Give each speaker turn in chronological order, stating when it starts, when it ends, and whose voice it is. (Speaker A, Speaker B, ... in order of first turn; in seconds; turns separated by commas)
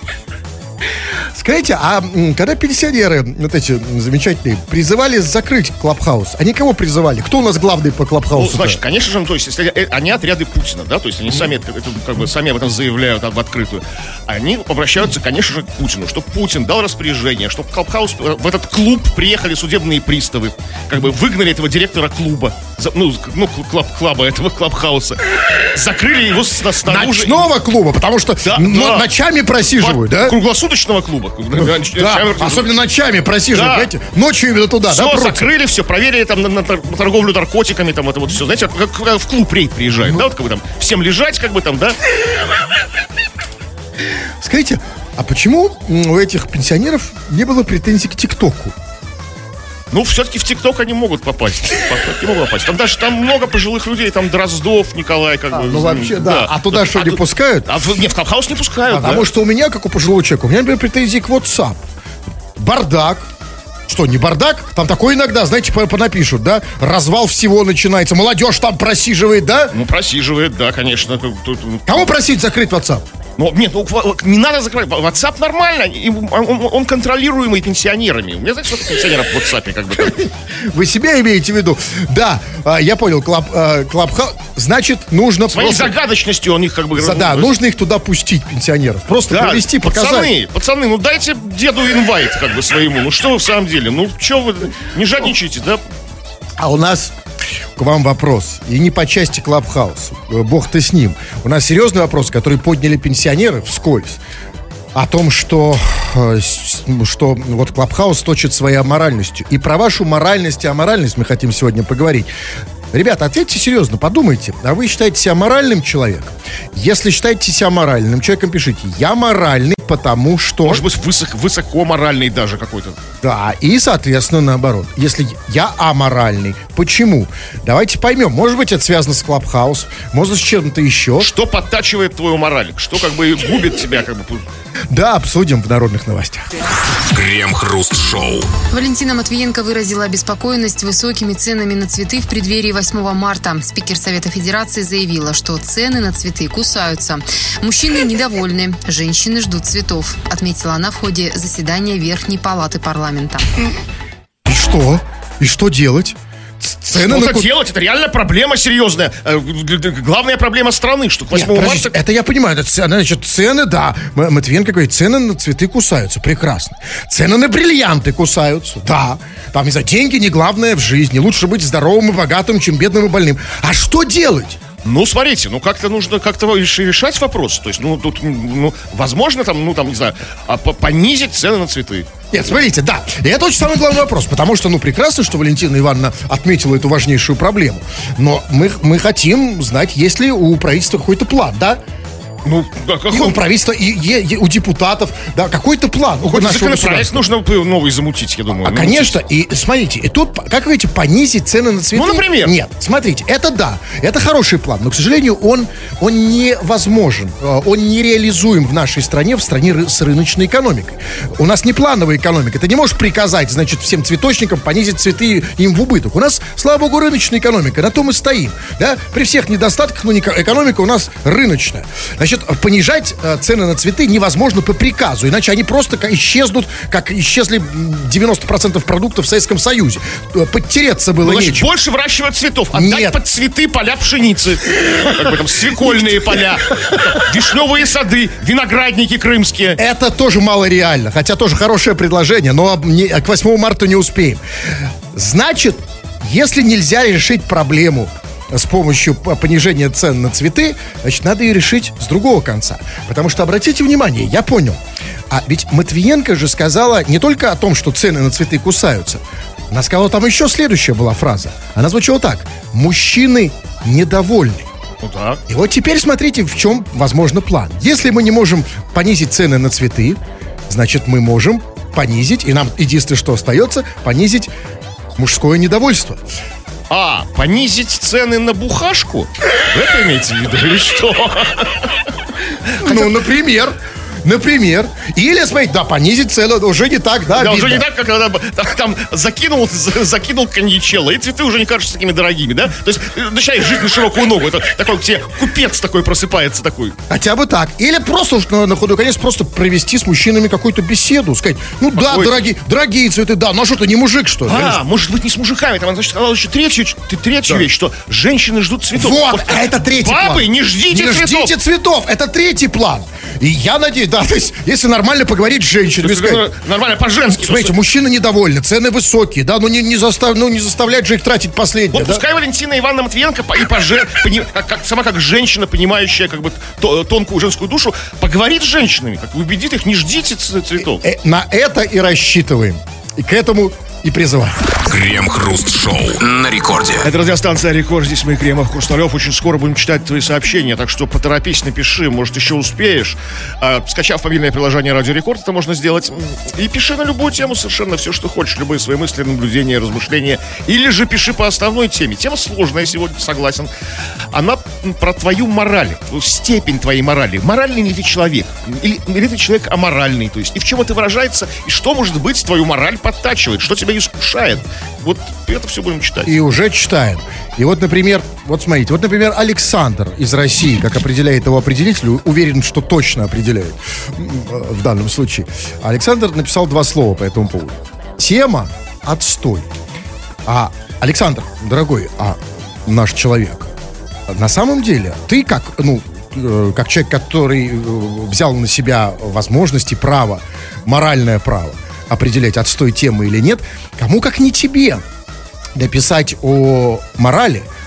Speaker A: 1.3-8.8, Speaker B: 8.3-27.4, Speaker A: 26.8-30.4, Speaker B: 28.4-29.1, Speaker B: 29.8-32.7, Speaker A: 31.6-35.5, Speaker B: 33.5-33.9, Speaker B: 34.9-42.0, Speaker A: 44.4-48.8, Speaker B: 49.9-59.3, Speaker A: 55.5-57.7, Speaker A: 58.9-61.8, Speaker A: 62.6-63.3, Speaker A: 63.9-69.8, Speaker B: 69.7-72.1, Speaker A: 71.9-73.0, Speaker B: 73.4-80.2, Speaker A: 80.0-85.9, Speaker B: 85.5-87.5, Speaker A: 87.0-90.3, Speaker B: 89.3-95.8, Speaker A: 96.6-97.1, Speaker A: 97.8-104.2, Speaker A: 104.9-112.3, Speaker A: 112.9-120.9, Speaker B: 120.6-123.0, Speaker A: 123.2-131.3, Speaker B: 131.2-134.4, Speaker A: 134.9-136.5, Speaker C: 136.9-138.5, Speaker D: 138.7-153.5, Speaker A: 154.4-157.5, Speaker B: 156.9-162.0, Speaker A: 161.3-174.6, Speaker B: 174.8-182.1, Speaker A: 182.3-191.8, Speaker B: 192.4-193.4, Speaker A: 193.1-197.2, Speaker B: 196.2-199.2, Speaker A: 198.6-231.7, Speaker B: 201.9-202.5, Speaker B: 231.2-239.8, Speaker A: 232.7-233.2, Speaker A: 235.8-236.4, Speaker A: 239.8-244.4, Speaker A: 245.1-254.8, Speaker A: 255.3-264.7, Speaker B: 265.0-265.4, Speaker A: 265.5-274.5, Speaker A: 275.2-276.2, Speaker B: 276.9-282.1, Speaker B: 282.7-283.1, Speaker A: 282.8-287.9, Speaker B: 287.3-297.0, Speaker A: 297.1-304.8, Speaker B: 301.9-302.4, Speaker B: 304.5-311.6, Speaker A: 308.9-316.4, Speaker B: 316.0-317.8, Speaker A: 317.3-322.2, Speaker B: 321.9-331.0, Speaker A: 330.9-334.6, Speaker C: 334.8-337.1, Speaker B: 337.0-353.7, Speaker B: 354.3-366.4, Speaker A: 366.2-379.7, Speaker A: 380.5-383.7, Speaker A: 384.3-395.0, Speaker A: 395.8-397.7